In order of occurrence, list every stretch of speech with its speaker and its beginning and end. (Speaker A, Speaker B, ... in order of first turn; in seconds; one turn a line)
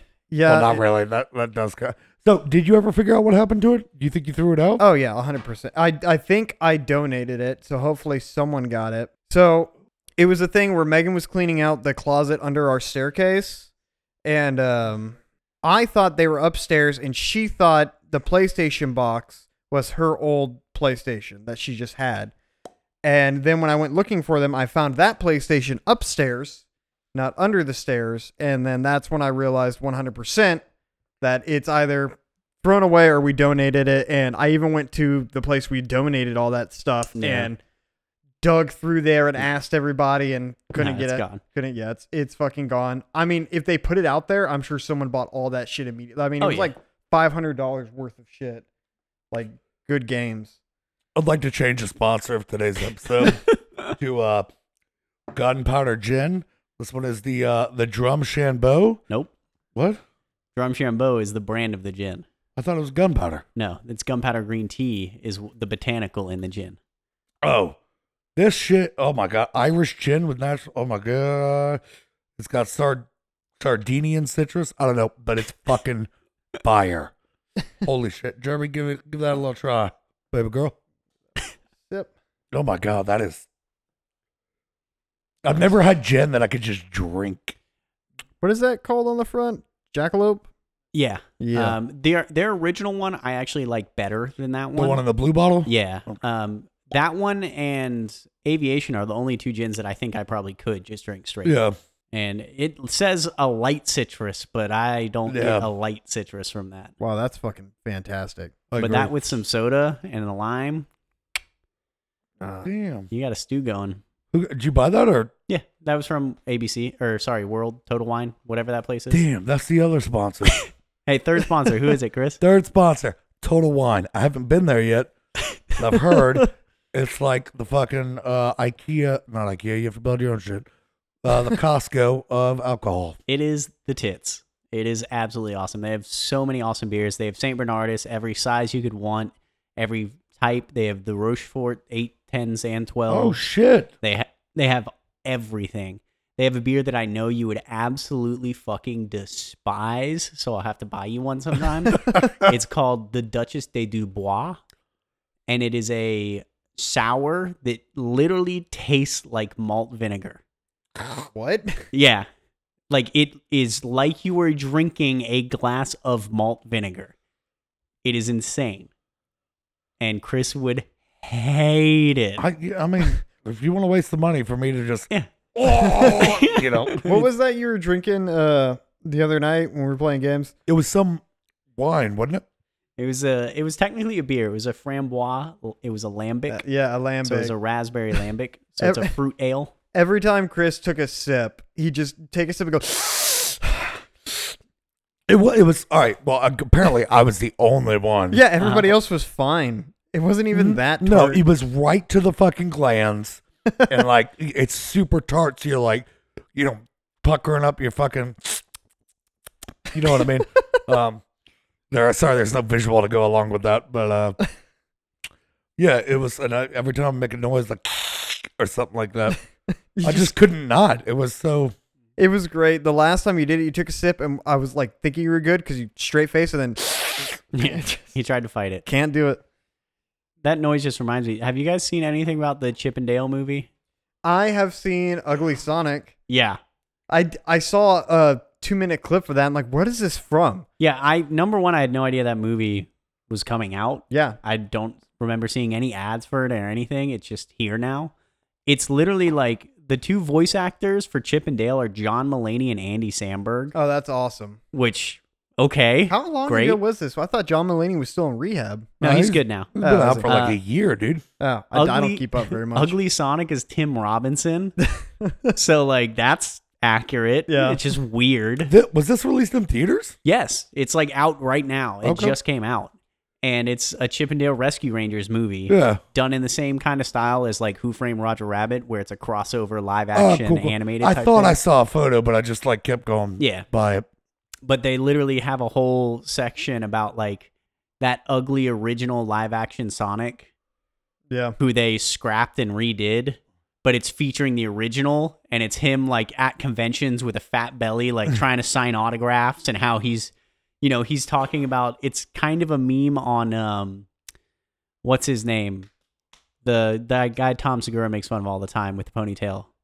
Speaker A: 0.3-0.8
Speaker B: 0.4-4.8
Speaker A: 4.8-13.7
Speaker A: 14.2-22.3
Speaker A: 23.0-26.6
Speaker A: 27.1-30.6
Speaker A: 31.2-37.6
Speaker C: 37.2-37.5
Speaker A: 38.4-48.6
Speaker C: 40.8-41.4
Speaker C: 46.4-46.7
Speaker A: 49.3-50.5
Speaker B: 51.1-53.5
Speaker B: 54.0-54.5
Speaker B: 55.3-59.0
Speaker B: 59.7-60.0
Speaker C: 60.5-62.2
Speaker B: 62.5-63.4
Speaker C: 63.5-66.8
Speaker B: 67.4-67.8
Speaker B: 68.3-71.8
Speaker B: 72.4-73.1
Speaker B: 73.6-76.1
Speaker B: 76.6-77.1
Speaker B: 77.8-80.7
Speaker B: 82.5-83.4
Speaker B: 85.4-87.5
Speaker A: 88.4-90.5
Speaker C: 90.9-95.0
Speaker A: 91.4-91.8
Speaker B: 94.8-96.2
Speaker C: 95.7-101.5
Speaker B: 101.4-101.8
Speaker C: 102.1-106.9
Speaker B: 105.3-105.7
Speaker A: 107.0-108.7
Speaker B: 108.7-109.1
Speaker C: 108.8-110.9
Speaker A: 112.4-112.7
Speaker B: 112.6-113.1
Speaker C: 113.1-114.0
Speaker B: 114.3-115.3
Speaker C: 115.5-119.2
Speaker B: 119.1-120.6
Speaker C: 120.5-122.4
Speaker B: 122.4-125.1
Speaker B: 125.7-130.7
Speaker B: 131.2-133.2
Speaker C: 133.3-143.4
Speaker B: 143.1-143.9
Speaker C: 144.0-154.6
Speaker B: 151.9-152.5
Speaker C: 155.5-160.4
Speaker A: 161.3-161.8
Speaker C: 161.9-162.3
Speaker C: 162.9-167.1
Speaker C: 168.0-168.9
Speaker C: 170.0-172.4
Speaker B: 172.4-177.0
Speaker C: 175.1-177.2
Speaker A: 175.7-176.3
Speaker A: 177.0-180.5
Speaker B: 180.7-181.2
Speaker B: 181.8-182.4
Speaker C: 183.0-186.6
Speaker A: 186.5-187.5
Speaker C: 187.2-189.7
Speaker A: 188.8-189.1
Speaker A: 189.9-194.0
Speaker B: 195.3-198.4
Speaker A: 198.3-201.4
Speaker C: 198.6-198.9
Speaker B: 200.5-208.6
Speaker B: 209.9-211.2
Speaker B: 211.9-214.4
Speaker B: 215.8-219.4
Speaker A: 219.9-220.3
Speaker B: 220.0-221.7
Speaker A: 222.2-228.1
Speaker C: 227.5-228.8
Speaker A: 228.8-229.4
Speaker C: 230.4-233.7
Speaker A: 234.2-236.1
Speaker C: 236.3-236.6
Speaker A: 237.1-240.7
Speaker C: 240.8-248.1
Speaker A: 244.1-244.4
Speaker C: 248.7-253.7
Speaker A: 253.7-254.6
Speaker C: 254.7-256.8
Speaker A: 256.1-259.0
Speaker C: 259.0-259.7
Speaker B: 259.0-261.2
Speaker A: 259.8-260.3
Speaker C: 260.2-260.6
Speaker A: 261.4-263.0
Speaker C: 261.7-264.7
Speaker A: 265.2-265.5
Speaker C: 265.5-268.7
Speaker A: 267.5-267.8
Speaker B: 268.6-270.1
Speaker C: 270.2-281.6
Speaker B: 272.0-272.3
Speaker B: 275.7-276.0
Speaker B: 280.1-284.1
Speaker C: 283.4-283.7
Speaker C: 284.6-287.5
Speaker C: 288.0-290.5
Speaker A: 291.3-291.6
Speaker C: 291.6-304.1
Speaker C: 305.0-305.9
Speaker C: 306.6-309.7